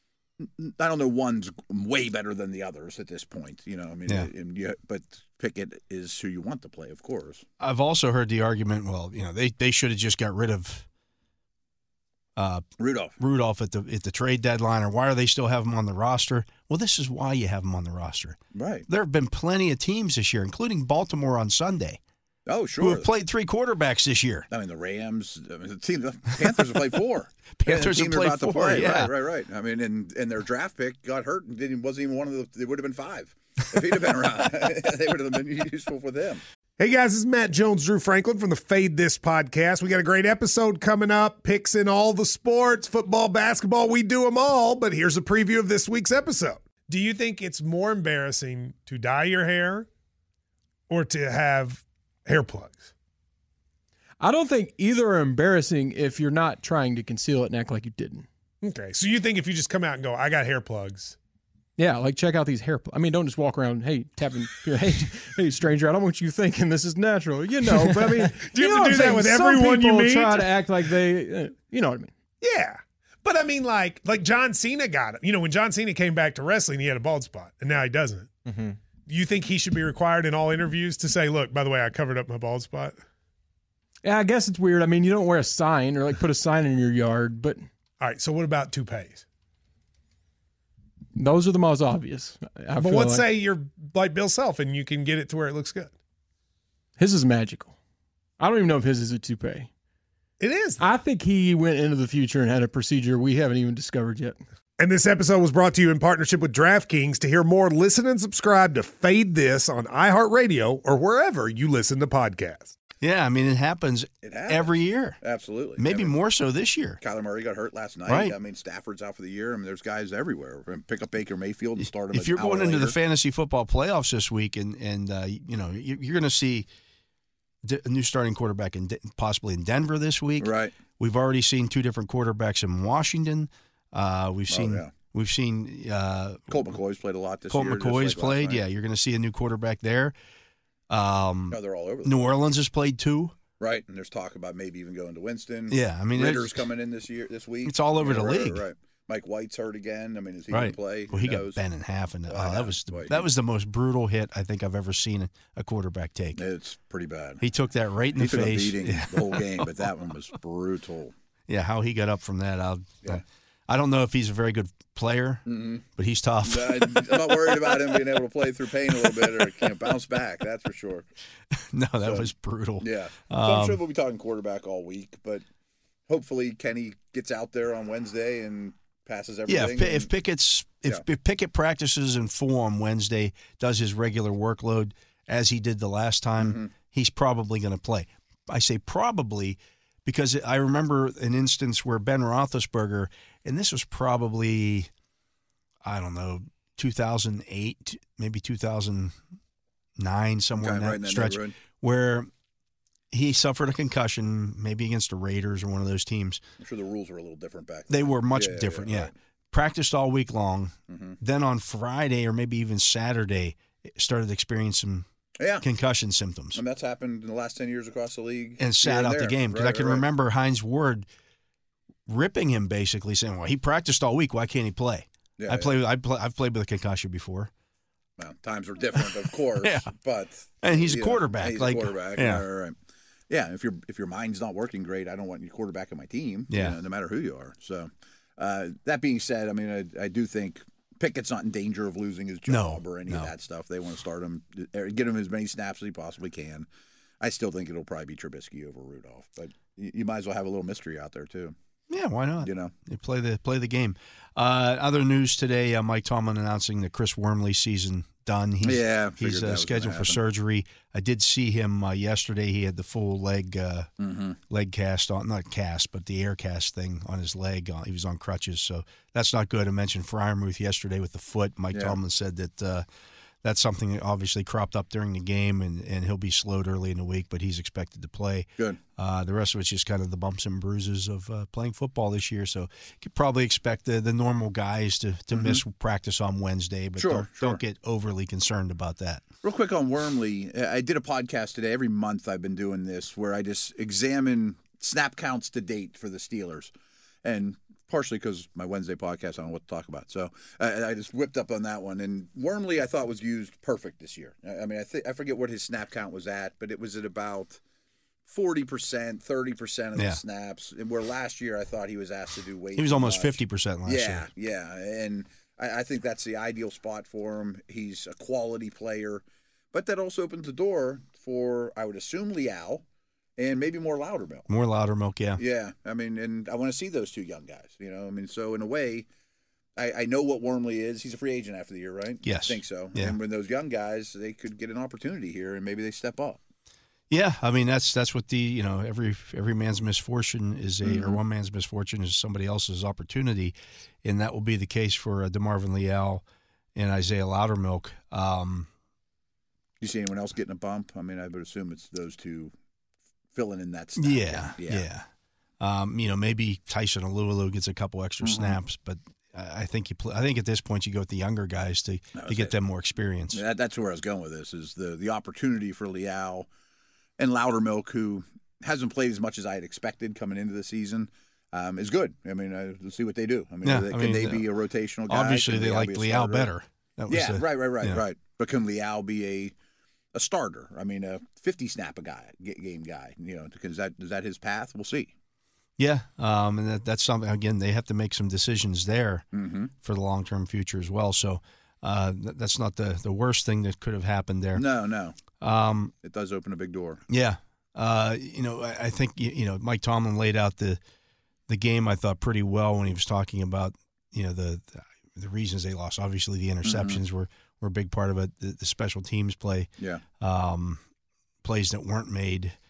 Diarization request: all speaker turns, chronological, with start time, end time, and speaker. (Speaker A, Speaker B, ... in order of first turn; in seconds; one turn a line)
Speaker A: 0.4-7.4
Speaker B: 7.6-10.8
Speaker B: 12.3-12.7
Speaker A: 12.8-13.2
Speaker B: 13.2-22.0
Speaker A: 18.5-18.9
Speaker A: 22.4-23.1
Speaker B: 22.8-24.5
Speaker A: 24.5-36.4
Speaker B: 27.6-29.1
Speaker C: 36.8-49.9
Speaker C: 50.9-52.9
Speaker D: 54.2-58.2
Speaker C: 58.6-61.1
Speaker D: 61.8-72.1
Speaker C: 67.8-70.5
Speaker C: 72.4-78.3
Speaker D: 78.5-78.8
Speaker C: 79.1-83.0
Speaker D: 84.0-87.6
Speaker C: 88.0-89.2
Speaker D: 91.2-93.3
Speaker C: 92.8-95.9
Speaker D: 97.0-97.7
Speaker D: 98.4-99.7
Speaker C: 100.4-100.8
Speaker D: 100.8-104.4
Speaker C: 104.8-112.7
Speaker B: 113.0-115.2
Speaker A: 114.2-116.1
Speaker B: 115.8-117.0
Speaker A: 117.0-123.0
Speaker B: 118.1-118.3
Speaker B: 121.8-126.7
Speaker B: 127.6-136.7
Speaker A: 130.4-130.7
Speaker A: 134.5-134.9
Speaker A: 136.5-138.6
Speaker B: 137.5-140.1
Speaker B: 140.9-143.3
Speaker A: 141.5-142.3
Speaker A: 143.6-151.6
Speaker B: 145.7-146.6
Speaker B: 147.6-148.6
Speaker B: 150.5-156.4
Speaker A: 152.3-153.3
Speaker A: 156.3-157.4
Speaker B: 157.4-159.7
Speaker A: 158.2-161.1
Speaker B: 161.5-165.4
Speaker A: 165.4-165.8
Speaker B: 165.9-168.0
Speaker A: 166.4-171.1
Speaker B: 169.0-169.5
Speaker B: 171.6-173.8
Speaker A: 172.0-175.4
Speaker A: 176.1-180.1
Speaker B: 179.5-194.9
Speaker A: 186.4-186.7
Speaker B: 195.8-199.2
Speaker B: 200.0-202.3
Speaker A: 200.6-201.6
Speaker B: 203.1-206.4
Speaker A: 206.6-209.1
Speaker B: 207.9-215.1
Speaker A: 210.9-211.2
Speaker A: 215.4-215.7
Speaker B: 215.6-216.6
Speaker A: 216.5-220.1
Speaker B: 218.6-221.1
Speaker B: 222.1-227.5
Speaker A: 225.4-225.8
Speaker A: 228.2-232.8
Speaker B: 228.9-229.9
Speaker B: 230.6-232.4
Speaker A: 233.3-246.7
Speaker B: 236.5-236.8
Speaker B: 242.5-243.3
Speaker A: 247.2-251.5
Speaker B: 251.9-263.9
Speaker A: 252.4-252.7
Speaker A: 258.6-260.2
Speaker A: 264.0-264.4
Speaker B: 264.5-272.8
Speaker A: 271.7-272.0
Speaker B: 273.4-289.2
Speaker A: 285.3-285.6
Speaker A: 286.9-287.6
Speaker A: 289.4-296.7
Speaker A: 297.2-307.6
Speaker A: 308.2-322.8
Speaker B: 309.9-310.2
Speaker B: 312.7-314.3
Speaker A: 323.4-324.5
Speaker B: 324.5-325.4
Speaker A: 325.4-329.1
Speaker A: 329.8-336.4
Speaker B: 332.2-333.2
Speaker B: 337.1-346.2
Speaker A: 340.8-341.2
Speaker B: 346.7-348.7
Speaker A: 349.8-352.5
Speaker A: 353.3-354.9
Speaker B: 354.0-355.1
Speaker B: 355.6-363.4
Speaker A: 358.2-358.6
Speaker A: 362.1-362.5
Speaker A: 363.3-366.5
Speaker A: 367.2-376.5
Speaker B: 373.6-374.4
Speaker B: 375.1-378.0
Speaker A: 377.1-379.5
Speaker A: 380.1-385.1
Speaker B: 385.8-389.2
Speaker A: 389.3-389.7
Speaker B: 389.8-394.6
Speaker A: 394.5-395.2
Speaker B: 395.4-395.9
Speaker A: 396.0-397.0
Speaker B: 397.1-400.8
Speaker B: 401.5-410.8
Speaker A: 406.6-407.0
Speaker B: 411.4-412.6